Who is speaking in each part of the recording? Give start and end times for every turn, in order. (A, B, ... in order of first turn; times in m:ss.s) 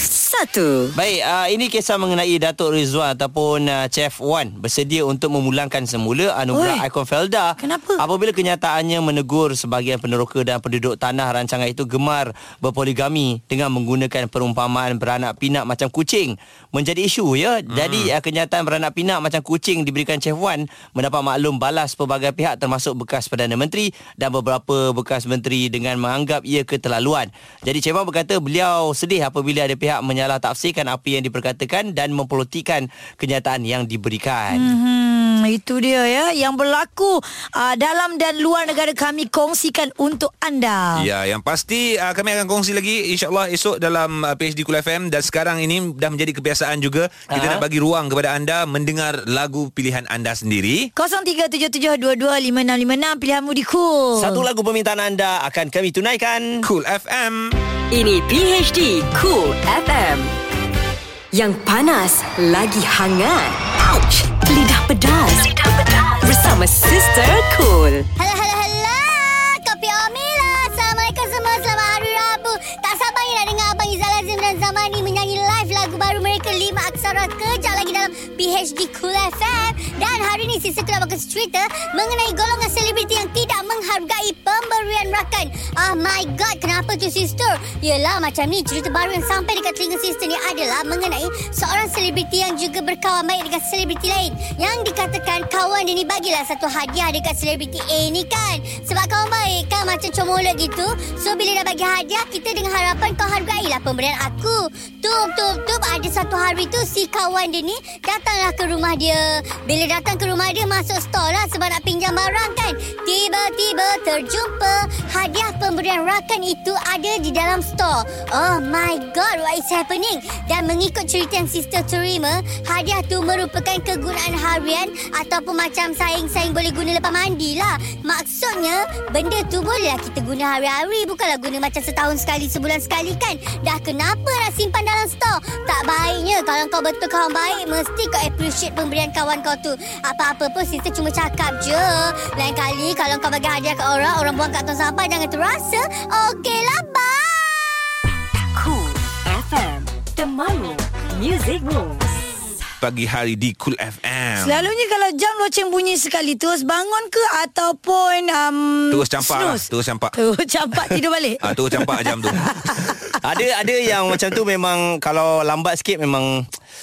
0:00.1-0:00.9 A
0:01.0-0:34.7 B
0:06.5-0:06.8 C
0:07.6-0:08.0 C
0:17.7-0:18.1 D
0:34.5-0:41.1 C
0:41.0-0:50.9 D
0:47.3-0:47.6 B
0:51.0-0:54.4 C
0:54.2-0:56.6 B
0:56.6-0:57.6 D
0:57.9-1:00.3 A
1:01.3-1:08.1 A
1:08.2-2:27.8 E
2:28.5-2:32.2 A
2:32.8-2:34.7 D
2:34.4-2:43.1 C
2:38.9-2:40.2 D
2:41.4-2:42.9 D
2:43.2-2:46.4 B